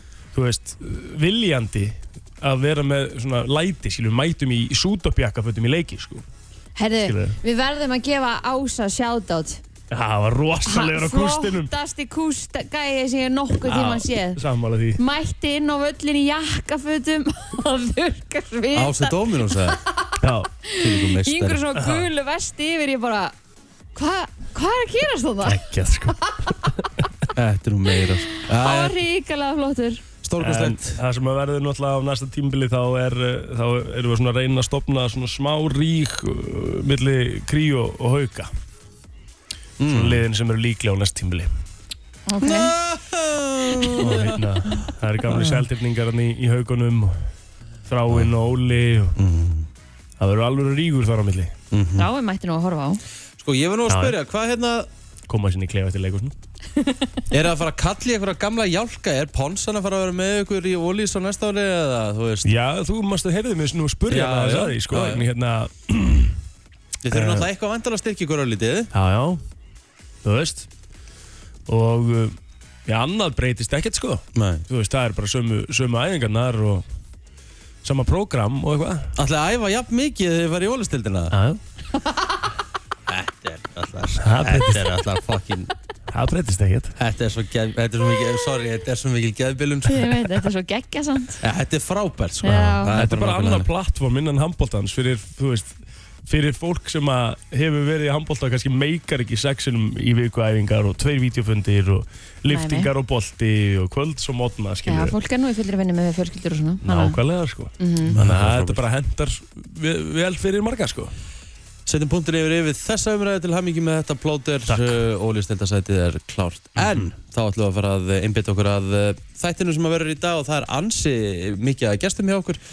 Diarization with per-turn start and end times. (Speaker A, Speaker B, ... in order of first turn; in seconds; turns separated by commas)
Speaker A: 0.3-6.2, Speaker B: 6.8-9.6, Speaker A: 7.0-7.4, Speaker A: 9.9-11.7, Speaker B: 10.7-14.4, Speaker A: 13.6-15.0, Speaker B: 15.0-20.1, Speaker C: 18.7-19.8, Speaker A: 20.2-20.5, Speaker B: 20.6-23.3, Speaker C: 20.8-21.6, Speaker A: 21.8-22.1, Speaker B: 23.9-25.6, Speaker A: 25.4-26.9, Speaker B: 26.1-26.7, Speaker C: 27.4-29.0, Speaker B: 28.4-30.0, Speaker C: 30.2-31.0, Speaker A: 30.4-38.5, Speaker C: 39.8-40.2, Speaker A: 39.9-41.5, Speaker B: 42.3-42.7, Speaker C: 42.4-45.6, Speaker A: 44.0-47.1, Speaker A: 47.9-49.1, Speaker C: 49.1-49.7, Speaker A: 50.2-51.5, Speaker C: 51.7-52.1, Speaker B: 52.0-53.0, Speaker C: 53.4-54.9, Speaker A: 53.9-54.2, Speaker A: 55.3-56.3, Speaker C: 57.3-62.5, Speaker A: 62.5-66.4, Speaker C: 64.1-65.3, Speaker C: 67.0-68.9, Speaker A: 67.1-67.5, Speaker A: 68.9-69.4, Speaker A: 70.2-70.7, Speaker A: 71.7-76.8, Speaker C: 74.3-74.7, Speaker A: 77.8-79.1, Speaker C: 79.2-81.3, Speaker A: 81.3-81.6, Speaker B: 82.0-82.4, Speaker C: 83.1-85.7, Speaker A: 84.2-85.1, Speaker A: 86.1-87.0, Speaker C: 87.0-90.5, Speaker B: 89.9-91.4, Speaker C: 91.4-93.7, Speaker B: 92.4-93.0, Speaker A: 92.8-95.7, Speaker A: 96.2-105.2, Speaker B: 102.5-102.9, Speaker B: 104.9-107.2, Speaker A: 106.8-111.1, Speaker B: 107.8-108.2, Speaker C: 108.1-108.8, Speaker C: 111.9-122.6, Speaker A: 114.7-115.0